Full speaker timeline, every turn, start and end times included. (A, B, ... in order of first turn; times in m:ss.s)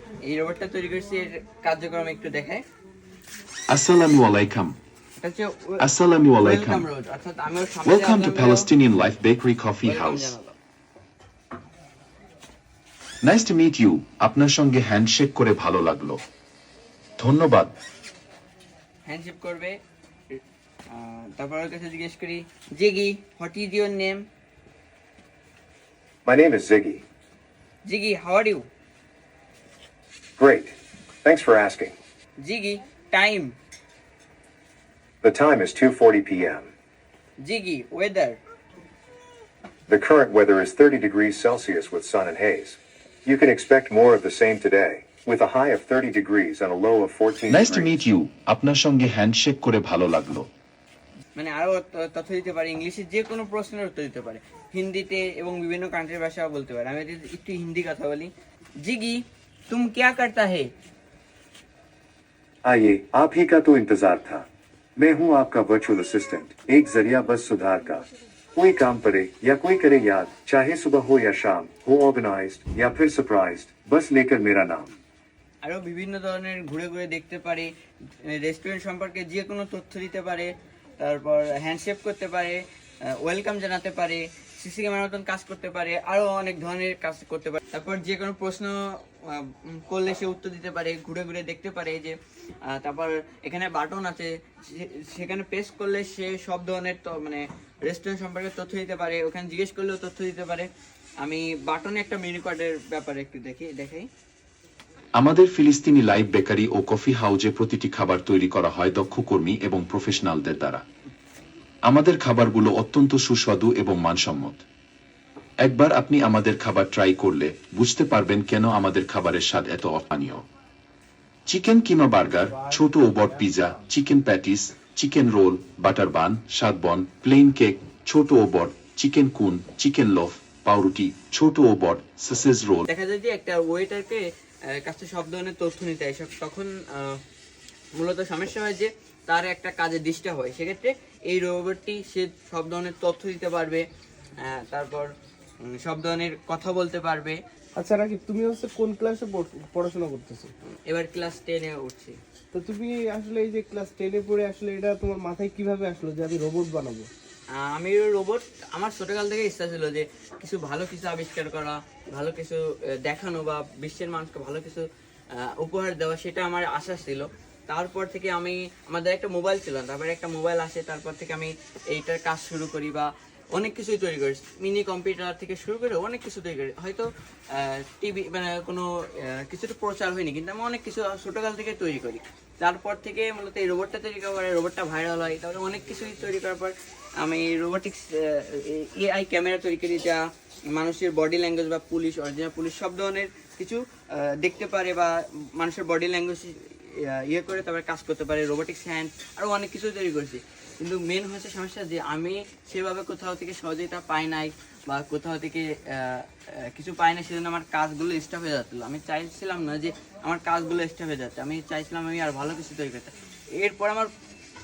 0:00.3-0:02.6 A
0:03.7-0:04.8 B
0:05.2-0:05.9 A
0:05.8-0:06.9 B
0:06.4-0:08.7 A
0:07.9-0:10.3 B
0:09.8-0:10.6 A
0:13.2-0:16.2 B
0:17.2-0:17.7 B
0:19.1-0:19.8 A
0:20.9-0:24.2 A
0:26.2-0:27.0 C
0:27.8-0:28.7 A
0:30.4-0:32.0 C
0:32.4-0:33.6 A
0:35.2-0:36.7 C
0:37.4-0:38.4 A
0:39.9-0:48.0 C
0:47.5-0:50.5 B
0:51.3-1:00.7 A
1:02.6-1:04.4 C
1:05.0-1:08.0 C
1:08.6-1:14.9 C
1:15.6-1:40.7 A
1:41.2-1:44.1 A
1:45.2-1:50.8 B
1:51.9-1:54.6 B
1:55.6-2:00.4 B
2:01.4-2:12.9 B
2:02.5-2:03.5 D
2:12.9-2:17.2 A
2:18.0-2:23.8 A
2:24.4-2:25.1 A
2:25.6-2:27.4 A
2:27.8-2:30.5 D
2:30.9-2:32.2 A
2:32.5-2:37.1 D
2:37.5-3:34.1 A